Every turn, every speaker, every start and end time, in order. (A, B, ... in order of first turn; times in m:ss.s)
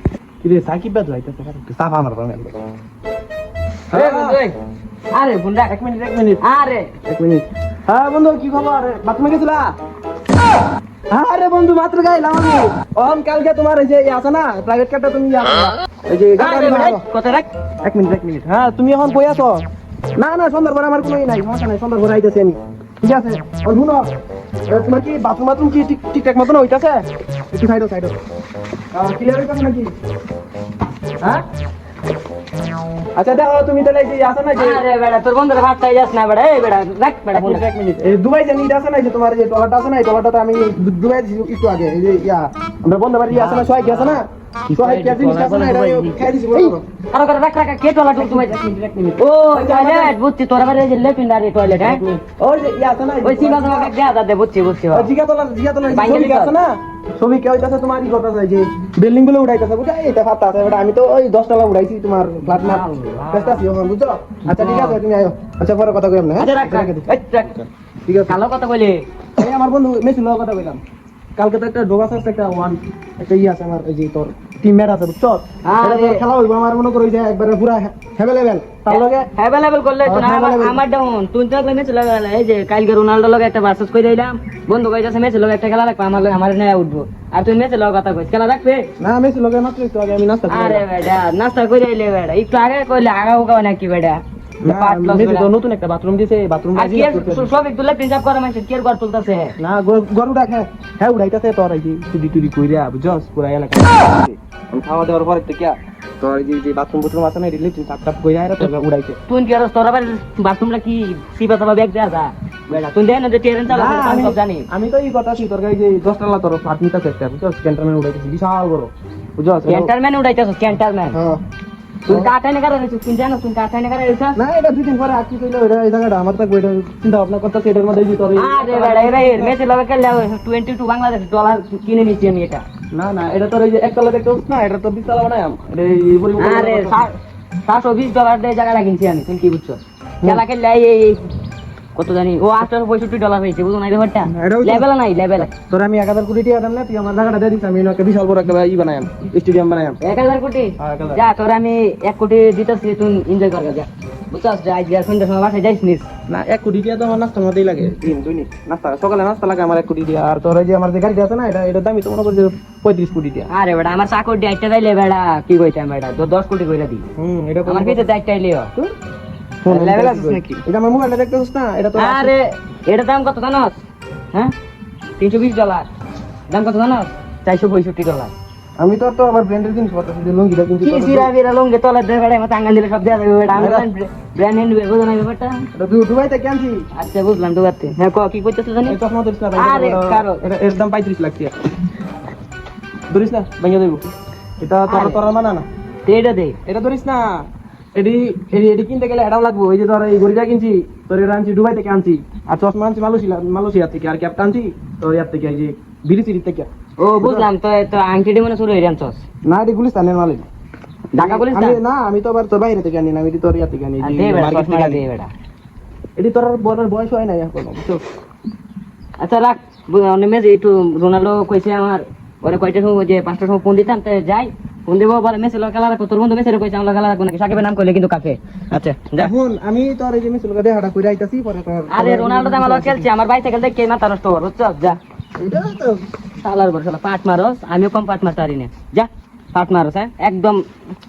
0:00.4-0:02.6 A
0:03.9-0:04.4 A
0:03.9-0:04.6 B
0:05.1-0:05.7 B
0:05.7-0:06.4 A
0:06.4-0:06.9 B
0:07.0-0:09.7 A
0:11.1-0:17.0 A
0:16.4-0:17.5 B
0:17.8-0:19.6 A
0:20.2-0:24.1 A
0:24.7-0:28.2 A
0:28.9-0:29.9 A
0:33.2-0:34.8 A
0:34.6-0:37.6 B
0:37.3-0:46.8 A
0:43.3-0:52.0 B
0:48.2-0:48.5 A
0:49.5-0:50.1 A
0:51.7-0:53.9 A
0:53.2-0:55.1 B
0:54.9-1:08.4 A
0:55.9-0:56.6 B
1:02.5-1:03.6 B
1:04.5-1:05.0 B
1:06.4-1:07.5 B
1:08.3-1:09.0 B
1:09.4-1:10.8 A
1:11.4-1:19.3 A
1:15.6-1:16.2 B
1:18.8-1:28.9 B
1:20.0-1:20.8 A
1:29.0-1:30.8 A
1:30.5-1:35.5 B
1:34.6-1:37.5 A
1:36.7-1:39.5 B
1:39.6-1:49.2 A
1:49.3-1:54.7 B
1:53.7-1:59.9 A
1:59.6-2:01.2 B
2:01.1-2:01.4 A
2:02.0-2:04.4 B
2:04.4-2:09.5 A
2:08.3-2:12.6 B
2:12.9-2:17.1 A
2:16.4-2:21.2 B
2:21.9-2:25.5 B
2:24.2-2:30.0 A
2:30.0-2:36.1 B
2:30.8-2:31.2 A
2:36.3-2:43.5 A
2:43.5-2:47.0 B
2:47.2-2:48.0 A
2:47.6-2:48.7 B
2:49.6-2:52.3 A
2:49.7-2:50.6 B
2:52.0-2:53.8 B
2:55.2-2:55.9 B
2:56.5-2:58.3 B
2:58.8-3:01.3 A
3:00.8-3:05.7 B
3:03.5-3:03.9 A
3:05.7-3:06.8 A
3:06.9-3:09.0 B
3:08.8-3:11.5 A
3:09.6-3:10.4 B
3:13.1-3:15.6 A
3:14.9-3:15.2 B
3:16.0-3:16.6 B
3:16.6-3:27.5 A
3:27.0-3:29.2 B
3:29.4-3:30.4 A
3:31.1-3:31.8 B
3:31.2-3:35.0 A
3:34.0-3:35.3 B
3:36.2-3:38.0 A
3:39.2-3:49.3 B
3:48.7-3:53.1 A
3:51.9-3:55.0 B
3:55.4-3:56.0 A
3:56.4-4:00.6 B